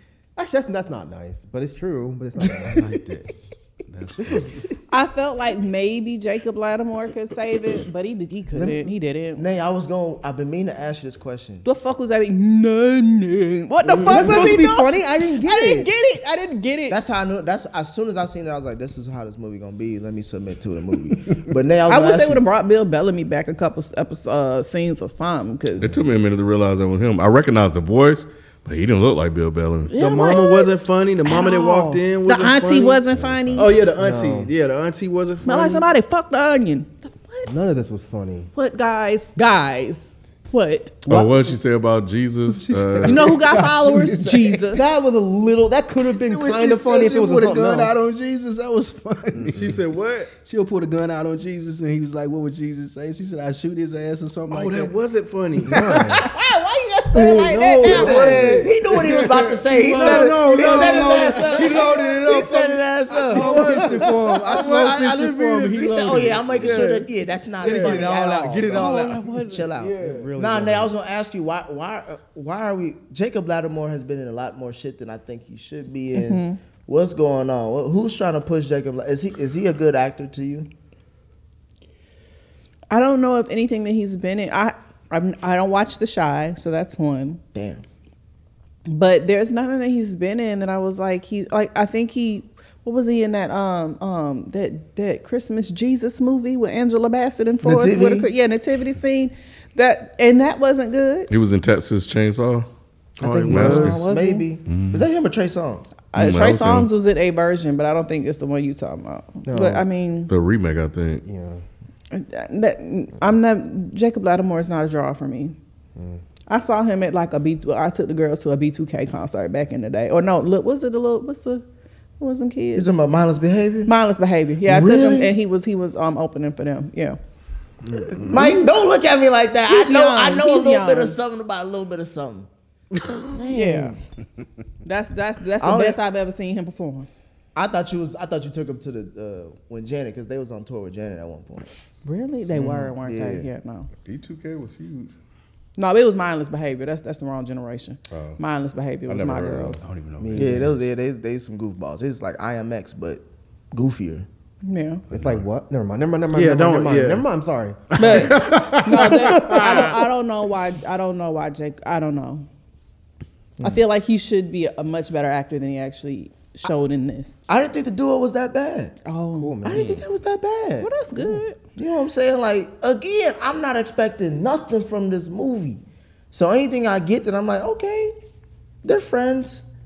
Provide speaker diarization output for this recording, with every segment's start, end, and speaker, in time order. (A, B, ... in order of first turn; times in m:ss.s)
0:00.4-0:02.9 A
0:02.6-0:03.3 B
0:03.9-0:04.6 B
0:04.2-0:04.6 A
0:04.9-0:09.4 C
0:08.6-0:11.6 D
0:11.6-0:17.0 C
0:13.9-0:15.9 A
0:14.1-0:14.5 D
0:16.9-0:22.4 D
0:21.9-0:26.0 C
0:25.8-0:29.9 E
0:29.9-0:30.7 C
0:29.9-0:33.0 F
0:31.2-0:33.8 C
0:33.2-0:34.5 A
0:33.6-0:35.9 F
0:35.4-0:37.5 C
0:37.5-0:38.5 A
0:38.6-0:41.0 C
0:41.1-0:43.3 E
0:41.1-0:41.5 B
0:42.5-0:44.6 B
0:43.0-0:45.0 C
0:44.7-0:48.0 A
0:46.2-0:49.8 B
0:49.5-0:50.3 F
0:50.4-0:54.9 B
0:54.5-0:56.2 F
0:55.7-0:56.2 A
0:55.7-0:56.2 B
0:56.1-0:58.4 C
0:57.2-1:02.2 F
0:57.8-1:20.7 D
0:58.0-0:58.7 A
0:59.8-1:06.9 B
1:03.1-1:07.1 F
1:07.6-1:09.4 B
1:07.6-1:08.0 F
1:08.8-1:09.6 C
1:09.8-1:10.3 F
1:10.0-1:10.9 A
1:16.1-1:16.6 C
1:22.9-1:27.4 C
1:27.5-1:27.8 D
1:28.9-1:41.3 C
1:37.6-1:38.3 D
1:41.3-1:42.7 E
1:43.2-1:43.9 F
1:43.2-1:45.9 D
1:43.5-1:44.0 E
1:43.7-1:44.5 C
1:44.7-1:45.1 E
1:46.1-1:50.3 C
1:46.1-1:46.9 E
1:49.5-1:49.8 A
1:50.3-1:51.2 E
1:51.2-1:51.6 A
1:52.1-1:55.6 C
1:56.0-1:56.2 A
1:56.5-2:01.6 C
2:02.2-2:03.0 C
2:02.8-2:03.9 D
2:03.9-2:07.2 C
2:04.6-2:05.4 D
2:07.8-2:08.5 F
2:08.0-2:12.5 D
2:09.7-2:11.2 C
2:12.9-2:13.4 F
2:13.4-2:14.0 D
2:13.5-2:14.0 C
2:14.8-2:17.1 C
2:15.6-2:16.0 D
2:17.6-2:21.7 D
2:22.0-2:23.9 C
2:22.5-2:23.5 D
2:24.0-2:25.1 E
2:25.8-2:29.8 C
2:28.1-2:28.4 E
2:29.1-2:29.8 E
2:29.8-2:30.8 B
2:30.2-2:30.8 A
2:30.4-2:34.3 D
2:34.6-2:35.0 C
2:35.1-2:35.4 B
2:35.1-2:38.4 A
2:36.3-2:37.2 F
2:37.9-2:40.0 F
2:38.0-2:42.5 C
2:39.4-2:39.8 A
2:43.6-2:47.4 C
2:47.5-2:49.0 D
2:49.0-2:49.8 C
2:49.3-2:50.0 A
2:49.6-2:50.9 D
2:50.8-2:51.6 C
2:51.8-2:55.8 D
2:56.3-2:58.1 D
2:58.8-2:59.6 D